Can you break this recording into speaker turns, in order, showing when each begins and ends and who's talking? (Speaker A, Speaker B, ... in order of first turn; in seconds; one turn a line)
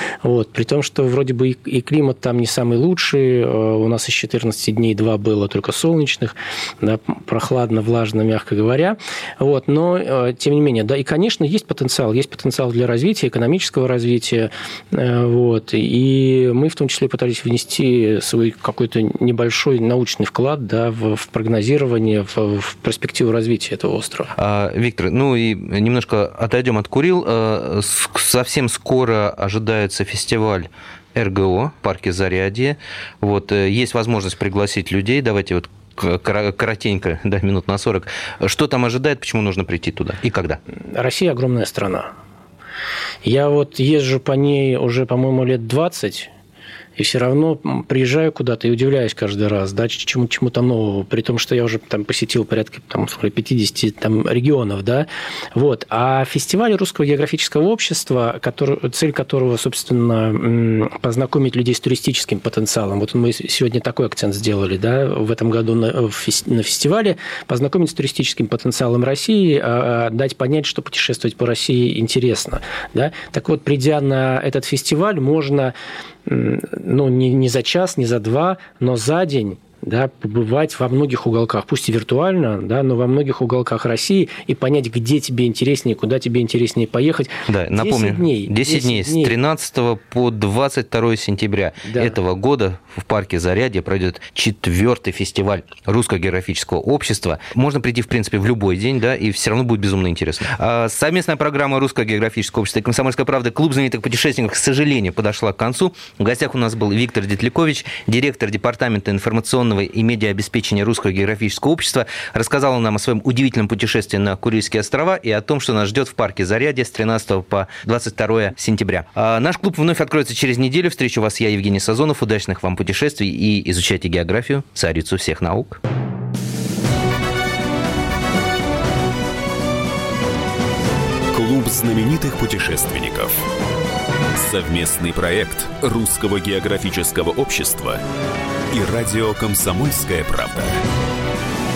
Speaker A: 0.2-24.3
Speaker B: 24.4-40.6
Speaker A: 40.7-42.1
Speaker A: 43.2-46.3
Speaker A: 47.0-75.7
Speaker A: 76.2-89.3
Speaker B: 87.5-125.8
Speaker A: 91.9-92.2
Speaker C: 131.3-133.5
Speaker C: 134.3-138.0
Speaker C: 138.7-140.8